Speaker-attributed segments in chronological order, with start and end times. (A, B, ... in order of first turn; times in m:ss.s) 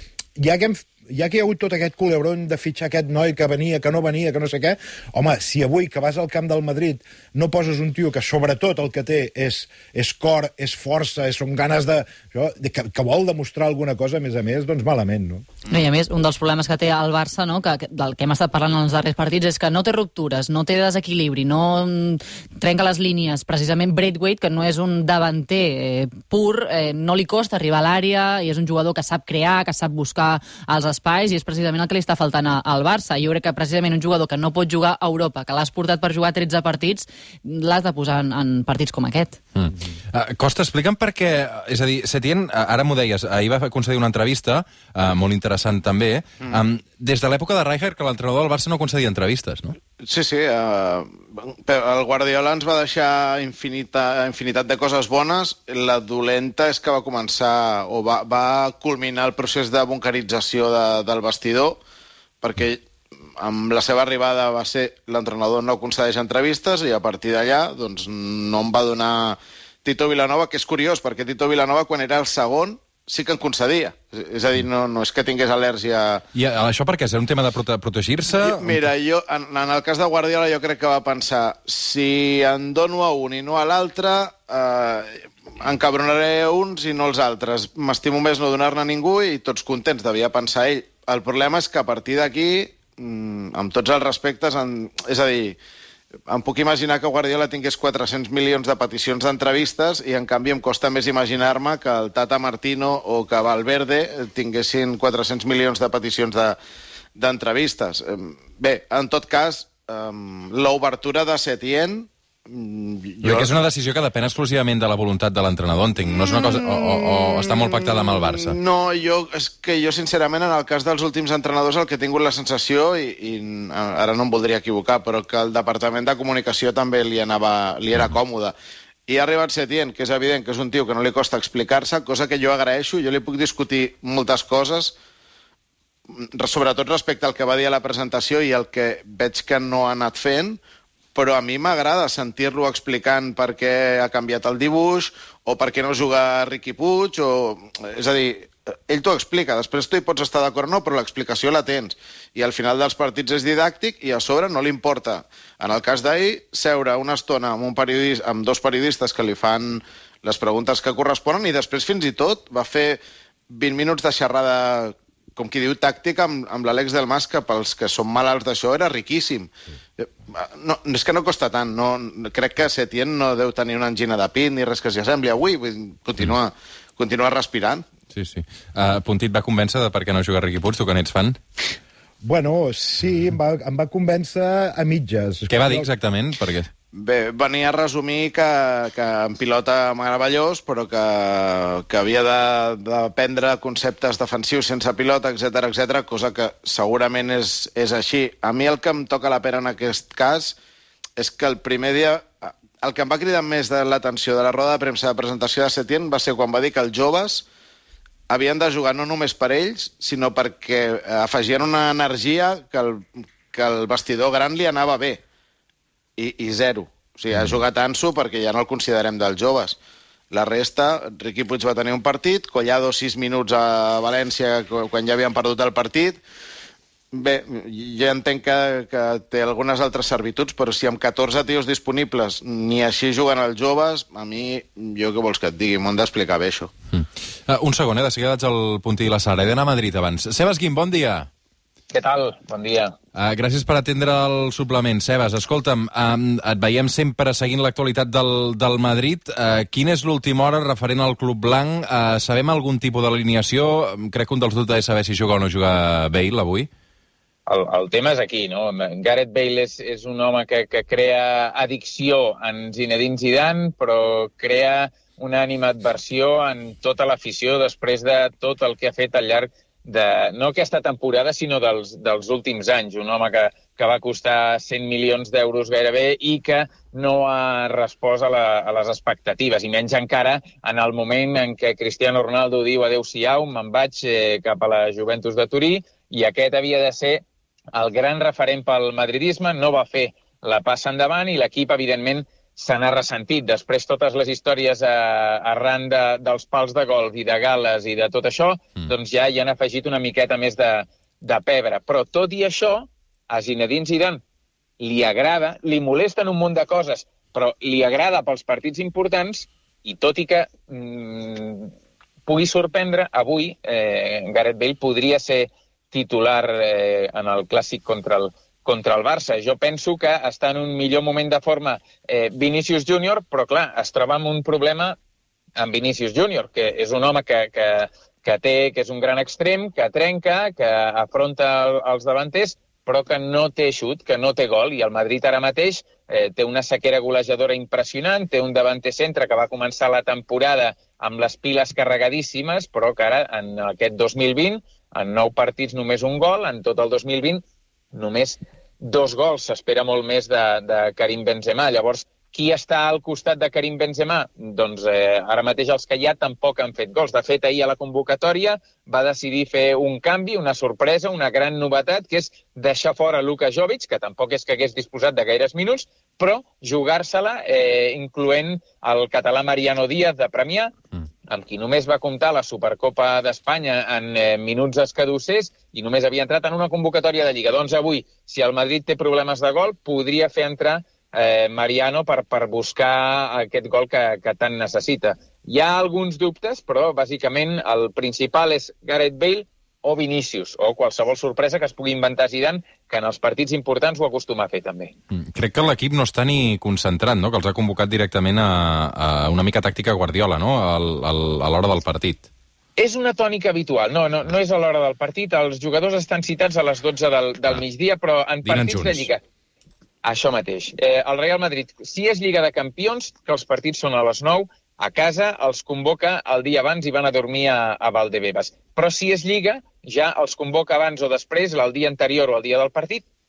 0:00.4-0:15.4 A
0:15.7-0:39.4 B
0:39.6-0:49.8 C
0:50.0-1:01.8 D
1:02.4-1:02.8 D
1:03.4-1:16.2 D
1:16.3-1:18.8 C
1:18.3-1:35.6 D
1:36.3-1:46.6 D
1:47.2-1:53.5 D
1:53.2-1:58.6 C
1:56.2-2:08.5 D
2:09.1-2:14.9 D
2:16.1-2:20.6 D
2:21.1-2:57.8 D
2:58.1-3:01.4 C
3:02.2-3:05.9 A
3:05.5-3:06.7 C
3:06.9-3:20.6 D
3:21.2-3:27.4 D
3:28.3-3:35.2 D
3:36.2-3:39.8 D
3:40.3-3:46.2 D
3:47.1-3:56.7 D
3:56.9-4:01.3 C
4:01.9-4:02.9 E
4:03.1-4:16.7 C
4:17.5-5:04.2 E
5:04.8-5:11.7 E
5:12.3-5:25.0 E
5:25.6-5:47.4 E
5:47.9-6:10.7 E
6:11.3-6:34.9 E
6:35.1-6:42.3 C
6:42.8-6:49.2 E
6:48.4-6:49.1 C
6:50.0-7:03.0 E